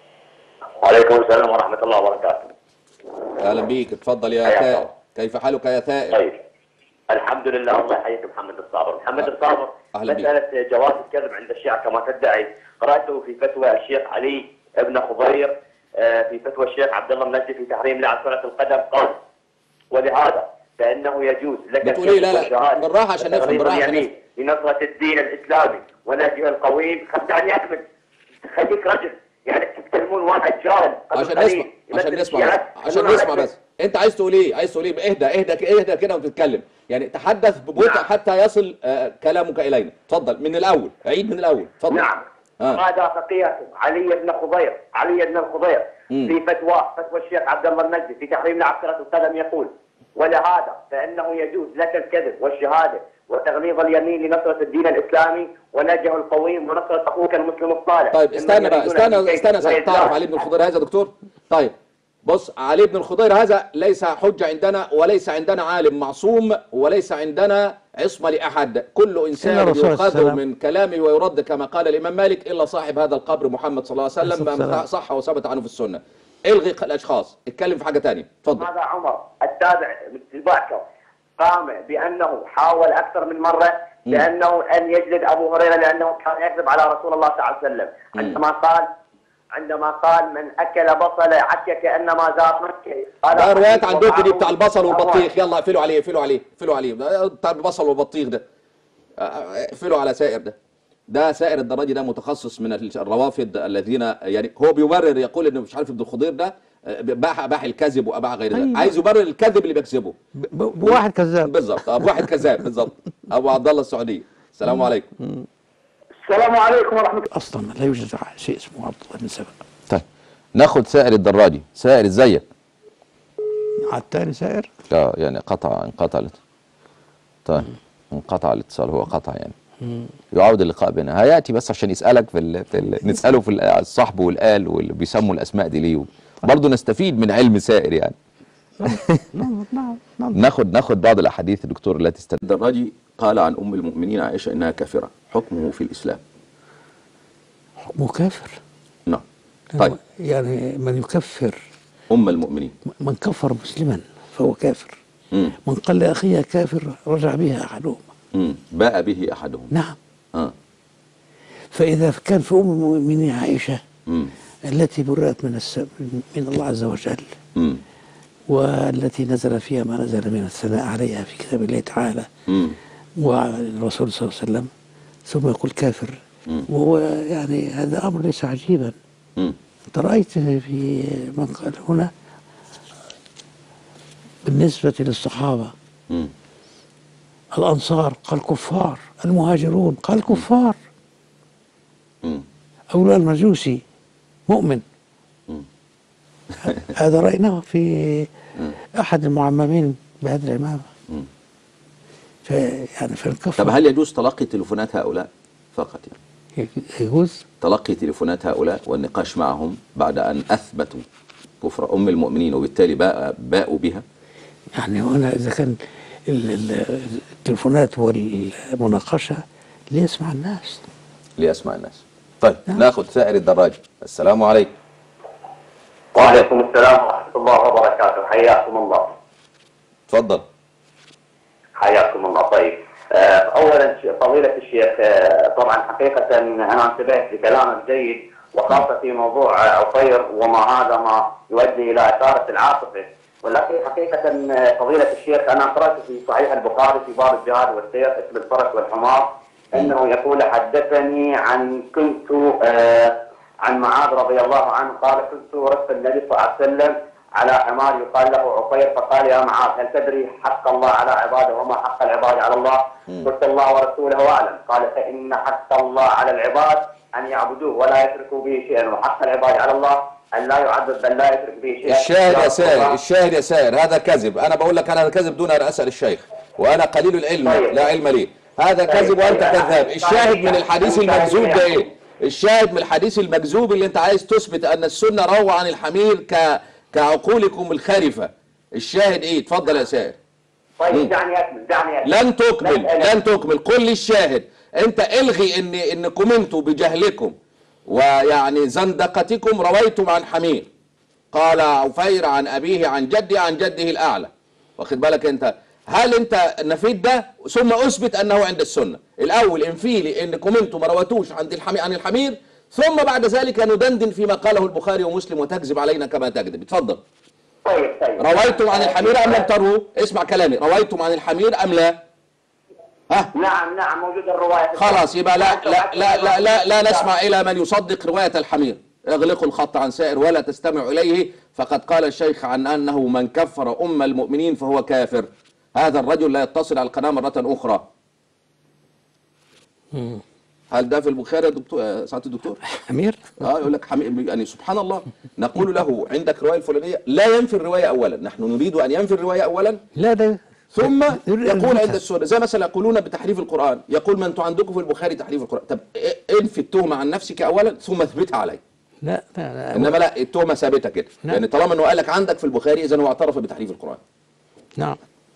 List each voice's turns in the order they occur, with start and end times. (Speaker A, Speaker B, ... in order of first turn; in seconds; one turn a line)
Speaker A: 0.8-2.5
Speaker B: 3.4-6.2
Speaker A: 4.4-4.8
Speaker A: 6.1-6.4
Speaker A: 7.1-19.2
Speaker B: 9.9-10.3
Speaker A: 19.9-27.8
Speaker B: 21.8-24.1
Speaker A: 28.4-33.5
Speaker B: 31.1-42.0
Speaker A: 37.8-38.0
Speaker A: 41.9-60.3
Speaker B: 58.1-61.7
Speaker B: 62.2-78.7
Speaker C: 69.4-70.4
Speaker C: 74.2-74.8
Speaker A: 78.6-80.8
Speaker A: 81.4-88.9
Speaker A: 89.5-95.3
Speaker B: 93.3-98.4
Speaker B: 99.2-100.5
Speaker B: 101.1-110.1
Speaker C: 108.5-108.9
Speaker C: 110.4-112.3
Speaker B: 110.8-115.1
Speaker A: 116.2-117.3
Speaker C: 117.3-119.6
Speaker B: 120.5-122.4
Speaker C: 123.8-124.7
Speaker B: 124.9-126.4
Speaker B: 127.5-129.5
Speaker B: 130.3-138.2
Speaker B: 138.8-139.3
Speaker C: 139.2-140.4
Speaker B: 140.3-146.2
Speaker C: 147.9-148.6
Speaker C: 149.7-151.6
Speaker B: 152.1-152.7
Speaker C: 153.0-155.0
Speaker B: 155.3-155.6
Speaker C: 155.6-158.1
Speaker B: 158.3-159.7
Speaker C: 159.7-160.0
Speaker C: 161.7-163.8
Speaker B: 164.1-164.3
Speaker C: 164.7-167.2
Speaker B: 167.6-167.8
Speaker C: 168.5-172.3
Speaker B: 172.5-172.8
Speaker C: 173.2-174.7
Speaker C: 175.3-178.9
Speaker C: 179.9-182.1
Speaker C: 184.4-185.7
Speaker C: 187.5-190.8
Speaker C: 192.9-193.8
Speaker C: 194.5-194.8
Speaker C: 196.8-198.3
Speaker C: 198.9-200.9
Speaker C: 202.4-203.7
Speaker B: 203.6-206.2
Speaker C: 206.6-207.4
Speaker B: 207.6-211.0
Speaker B: 211.6-214.0
Speaker C: 214.8-215.7
Speaker C: 216.3-219.4
Speaker C: 219.9-220.8
Speaker B: 221.4-224.7
Speaker A: 226.1-229.1
Speaker B: 226.2-226.5
Speaker B: 230.1-230.4
Speaker A: 231.8-273.0
Speaker B: 271.8-290.2
Speaker A: 277.4-277.8
Speaker A: 278.9-281.8
Speaker A: 290.8-293.1
Speaker B: 292.0-297.3
Speaker B: 297.9-300.7
Speaker B: 301.3-317.0
Speaker A: 317.6-319.5
Speaker B: 318.2-321.9
Speaker A: 323.3-327.1
Speaker B: 324.8-337.9
Speaker C: 339.9-340.2
Speaker B: 340.7-342.6
Speaker C: 342.7-343.4
Speaker B: 343.4-349.8
Speaker C: 349.9-352.0
Speaker B: 350.7-358.6
Speaker C: 359.0-359.9
Speaker B: 359.7-364.0